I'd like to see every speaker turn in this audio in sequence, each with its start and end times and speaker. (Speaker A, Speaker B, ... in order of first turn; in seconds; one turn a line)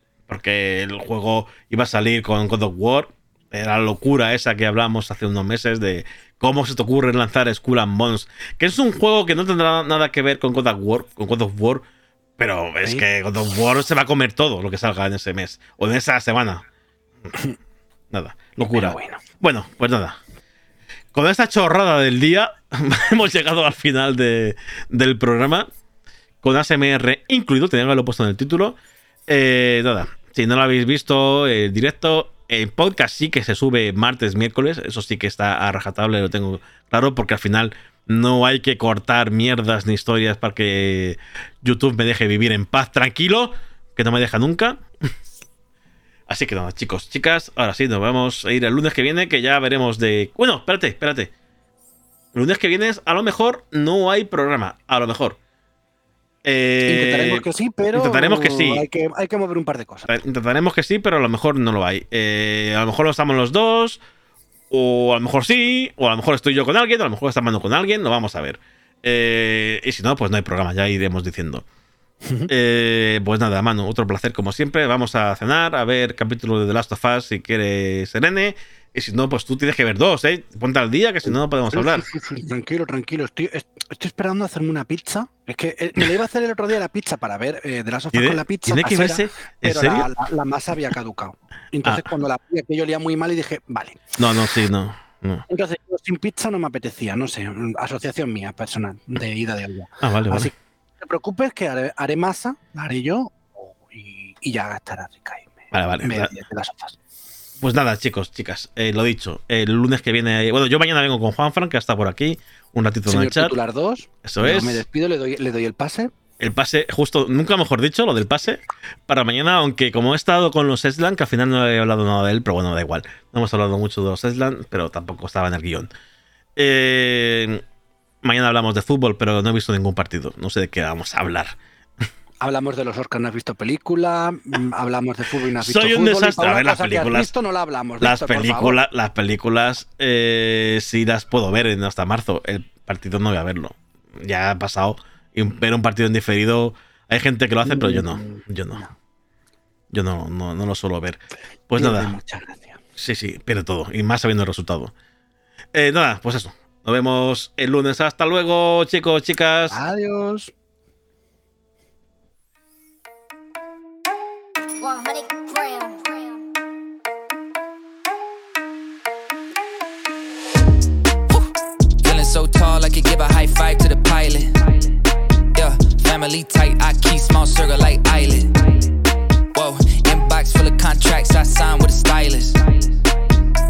Speaker A: 0.3-11.8
Speaker A: 12.4-16.6
Speaker A: 18.1-20.2
Speaker B: 18.7-19.2
Speaker A: 21.1-25.7
Speaker A: 26.4-44.8
Speaker A: 46.3-51.3
Speaker A: 52.3-55.4
Speaker A: 56.4-58.9
Speaker B: 56.9-60.1
Speaker A: 60.1-64.0
Speaker A: 64.7-71.7
Speaker B: 72.2-72.5
Speaker A: 72.5-82.1
Speaker B: 81.7-94.1
Speaker A: 88.1-90.1
Speaker A: 94.2-95.5
Speaker B: 95.5-107.0
Speaker A: 100.0-100.5
Speaker A: 105.7-106.3
Speaker A: 107.6-113.6
Speaker B: 113.1-116.1
Speaker A: 114.2-114.8
Speaker A: 116.4-125.9
Speaker A: 126.6-127.6
Speaker A: 128.2-131.6
Speaker B: 132.4-138.8
Speaker A: 135.6-137.3
Speaker A: 138.0-148.8
Speaker B: 147.7-148.9
Speaker A: 149.9-152.2
Speaker B: 151.8-152.8
Speaker A: 153.0-154.9
Speaker A: 155.7-159.8
Speaker B: 159.7-160.5
Speaker C: 172.0-174.7
Speaker C: 175.5-178.6
Speaker C: 179.5-182.9